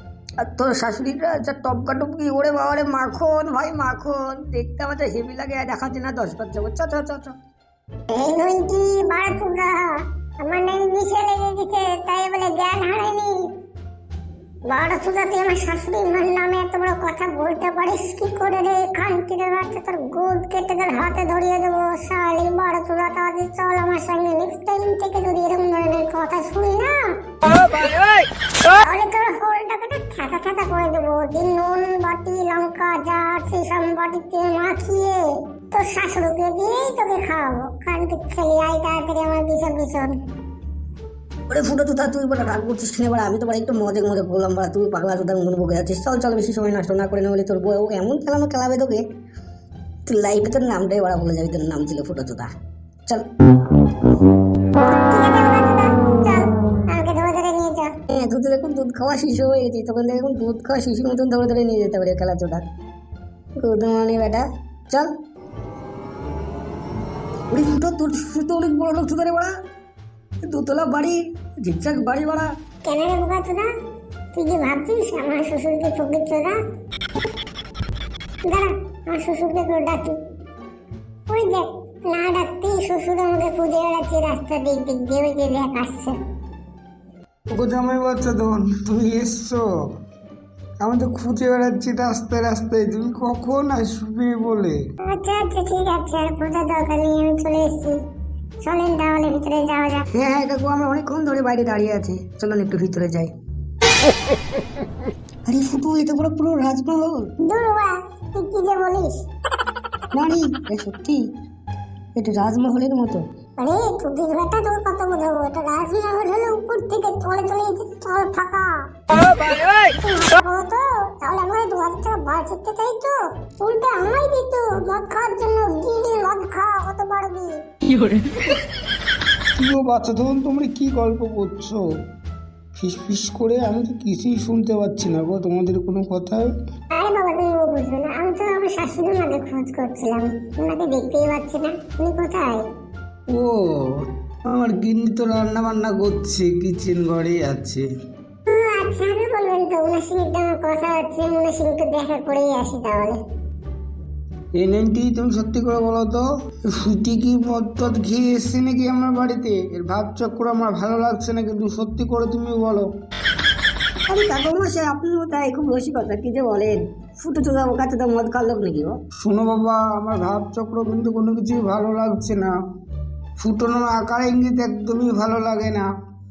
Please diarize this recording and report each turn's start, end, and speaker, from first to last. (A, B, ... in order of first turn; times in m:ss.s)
0:00.4-0:07.4 A
0:08.1-0:13.5 B
0:14.7-0:27.4 B
0:28.6-0:40.2 B
0:41.5-0:49.0 A
0:50.1-0:52.5 A
0:55.0-0:57.9 B
0:58.1-1:02.6 A
1:03.6-1:05.1 A
1:07.5-1:09.5 A
1:10.4-1:12.5 A
1:12.8-1:13.7 B
1:14.3-1:16.6 B
1:18.4-1:20.2 B
1:21.3-1:26.2 B
1:27.5-1:29.6 C
1:30.8-1:34.8 C
1:35.0-1:38.0 B
1:38.6-1:40.0 B
1:40.1-1:43.3 A
1:45.5-1:47.3 A
1:47.4-1:49.2 B
1:50.1-1:51.2 A
1:52.2-1:53.2 A
1:53.6-2:07.7 B
2:09.6-2:11.8 C
2:12.8-2:16.5 C
2:16.9-2:22.7 B
2:23.3-2:23.7 C
2:24.5-2:27.9 C
2:28.5-2:33.2 B
2:34.6-2:42.9 C
2:44.1-2:49.0 A
2:49.2-2:52.5 C
2:53.4-2:55.9 C